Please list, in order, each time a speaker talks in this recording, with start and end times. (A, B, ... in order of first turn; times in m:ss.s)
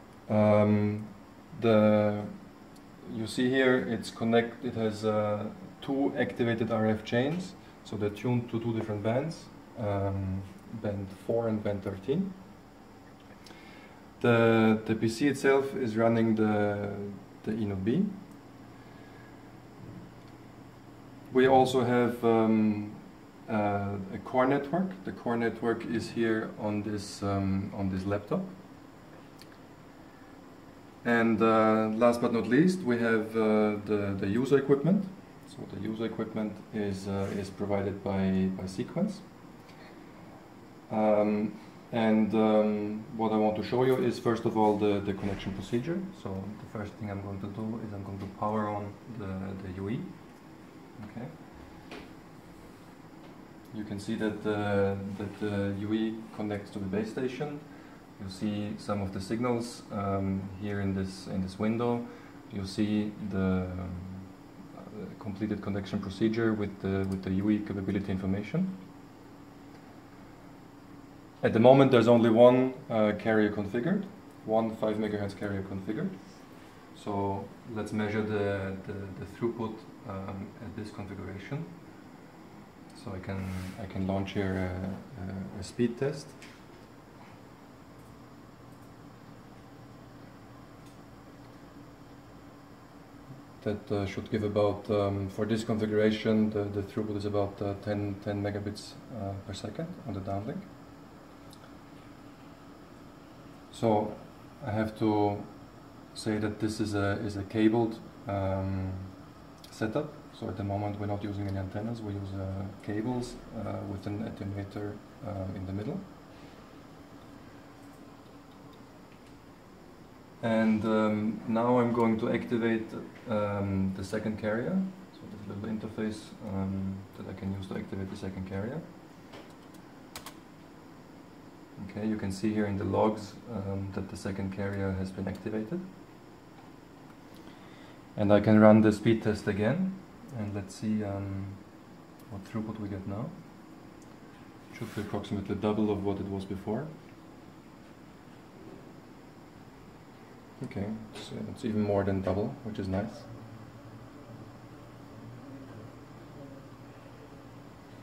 0:00.2-0:12.5 A
0:14.2-0:18.3 A
0:21.3-0:28.6 A
0:31.0-0:39.6 A
0:40.9-0:51.5 A
0:53.7-1:08.9 A
1:11.4-1:22.0 A
1:22.9-1:26.4 A
1:33.6-1:40.7 A
1:43.7-1:56.1 A
2:00.4-2:09.0 A
2:11.8-2:15.9 A
2:18.1-2:23.9 A
2:24.7-2:27.0 A
2:30.6-2:33.3 A